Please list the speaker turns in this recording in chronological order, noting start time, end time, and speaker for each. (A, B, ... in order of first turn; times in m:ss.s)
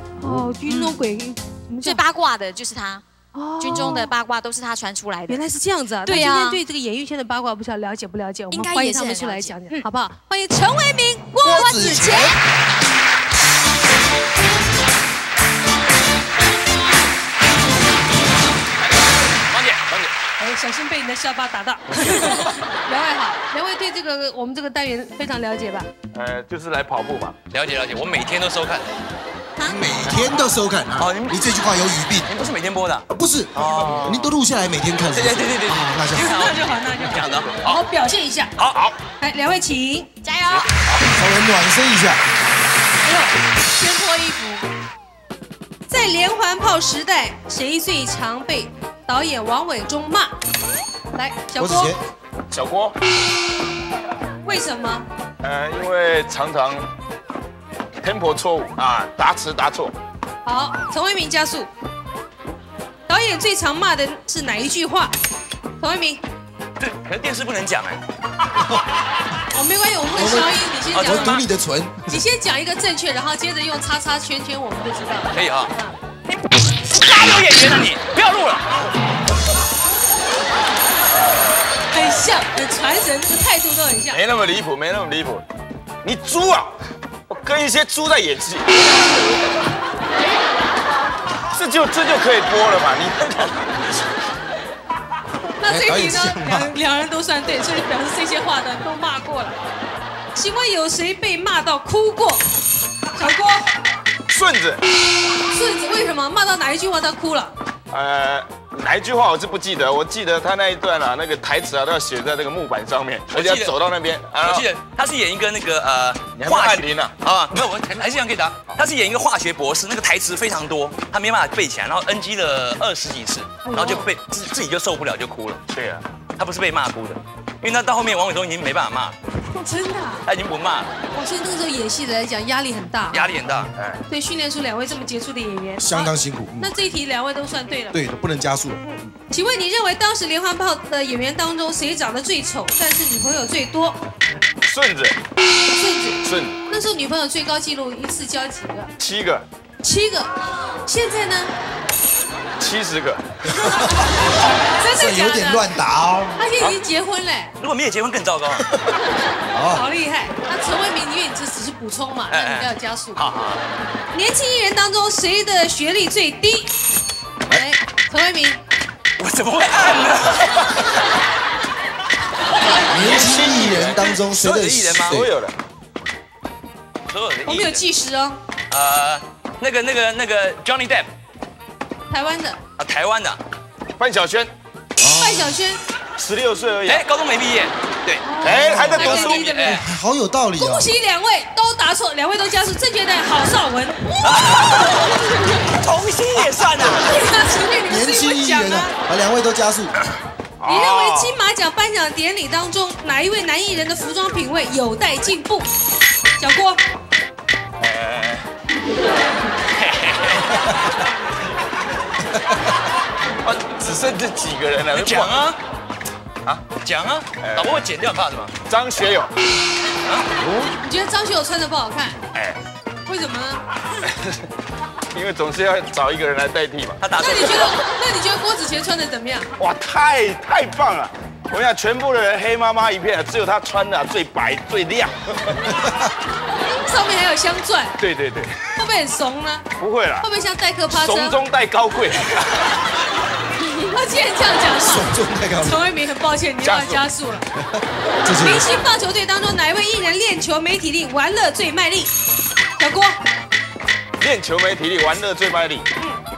0:00.2-0:02.0 A
0:00.2-0:00.5 B
0:00.7-0:01.1 C
0:01.8-0:03.0 C
0:03.3-0:04.1 A
0:03.6-0:05.4 C
0:05.3-0:12.4 A
0:06.0-0:06.6 C
0:08.5-0:09.9 C
0:11.4-0:12.3 B
0:11.9-0:12.4 C
0:19.5-0:20.1 D
0:20.4-0:25.9 A
0:26.1-0:27.4 E
0:27.5-0:28.9 D
0:29.6-0:30.4 C
0:29.6-0:32.4 B
0:31.0-0:31.5 D
0:32.3-0:34.3 D
0:33.1-0:36.5 B
0:35.0-0:37.8 D
0:36.1-0:38.5 A
0:38.6-0:38.9 D
0:39.2-0:40.1 A
0:40.2-0:40.7 C
0:41.0-0:42.2 B
0:43.0-0:44.6 A
0:45.9-0:50.3 A
0:51.1-0:52.0 A
0:51.6-0:52.0 B
0:52.5-0:53.0 E
0:54.4-0:55.1 A
0:55.4-0:56.9 E
0:58.0-0:59.9 E
1:00.4-1:01.7 A
1:03.1-1:05.1 A
1:05.8-1:06.2 A
1:06.8-1:08.0 D
1:08.6-1:08.8 B
1:09.5-1:11.4 A
1:10.2-1:12.2 B
1:10.9-1:11.4 D
1:12.1-1:16.0 A
1:15.3-1:15.7 D
1:16.8-1:18.8 D
1:21.9-1:24.2 A
1:24.1-1:25.4 E
1:26.0-1:26.8 E
1:27.3-1:29.1 E
1:31.5-1:33.9 E
1:35.6-1:39.6 A
1:35.6-1:36.7 B
1:40.3-1:42.4 A
1:43.1-1:43.7 A
1:44.3-1:44.8 E
1:45.4-1:47.5 A
1:47.9-1:54.7 E
1:53.3-1:53.7 D
1:54.4-2:05.6 D
1:56.4-1:57.1 E
2:03.6-2:04.1 A
2:05.7-2:06.1 E
2:06.4-2:09.1 D
2:09.5-2:10.2 A
2:10.2-2:10.9 D
2:11.1-2:13.3 A
2:13.1-2:13.7 D
2:13.7-2:14.0 E
2:14.1-2:18.0 A
2:15.8-2:16.7 B
2:17.9-2:19.0 B
2:19.3-2:24.0 A
2:24.6-2:25.2 E
2:25.7-2:28.9 A
2:26.2-2:26.6 E
2:29.0-2:29.4 E
2:29.8-2:30.3 A
2:30.8-2:31.5 A
2:32.6-2:33.2 E
2:33.6-2:33.9 A
2:34.8-2:35.8 A
2:34.9-2:36.4 B
2:36.4-2:37.5 A
2:37.6-2:38.6 D
2:38.6-2:38.9 B
2:39.5-2:39.8 B
2:39.7-2:43.2 A
2:42.3-2:43.6 D
2:44.1-2:46.7 A
2:47.5-2:48.6 A
2:49.2-2:51.0 D
2:52.8-2:55.3 B
2:52.9-2:54.2 E
2:54.2-2:55.2 D
2:55.1-2:55.5 E
2:57.1-2:57.8 D
2:57.4-2:58.4 A
2:58.7-3:01.1 D
3:02.1-3:02.6 A
3:02.8-3:03.4 D
3:04.0-3:04.5 E
3:05.0-3:05.6 B
3:05.0-3:05.8 A
3:06.2-3:07.0 E
3:06.8-3:09.8 D
3:08.2-3:09.9 A
3:08.4-3:09.5 E
3:08.4-3:08.9 B
3:09.6-3:10.9 B
3:10.6-3:14.2 A
3:14.2-3:17.2 D
3:16.9-3:18.9 A
3:17.9-3:19.9 B
3:20.6-3:21.3 E
3:20.6-3:25.7 A
3:26.4-3:26.8 A
3:27.8-3:28.4 E
3:29.8-3:30.5 D
3:33.4-3:35.5 E
3:34.9-3:35.6 D
3:36.8-3:38.6 D
3:37.4-3:37.8 E
3:38.6-3:39.3 E
3:40.4-3:40.7 E
3:40.8-3:42.2 A
3:42.3-3:42.6 E
3:43.0-3:43.6 A
3:44.1-3:44.4 E
3:45.1-3:47.0 E
3:47.0-3:47.8 D
3:47.2-3:49.5 A
3:49.6-3:55.2 E
3:55.6-3:56.1 B
3:56.7-3:58.0 A
3:58.0-3:58.6 E
3:58.7-3:59.7 A
3:59.8-4:00.3 E
4:00.2-4:01.4 A
4:00.9-4:02.8 E
4:03.8-4:05.1 A
4:04.8-4:05.8 B
4:05.6-4:07.5 A
4:06.6-4:07.0 E
4:07.6-4:08.7 B
4:08.3-4:12.1 A
4:12.8-4:13.2 A
4:14.2-4:15.9 E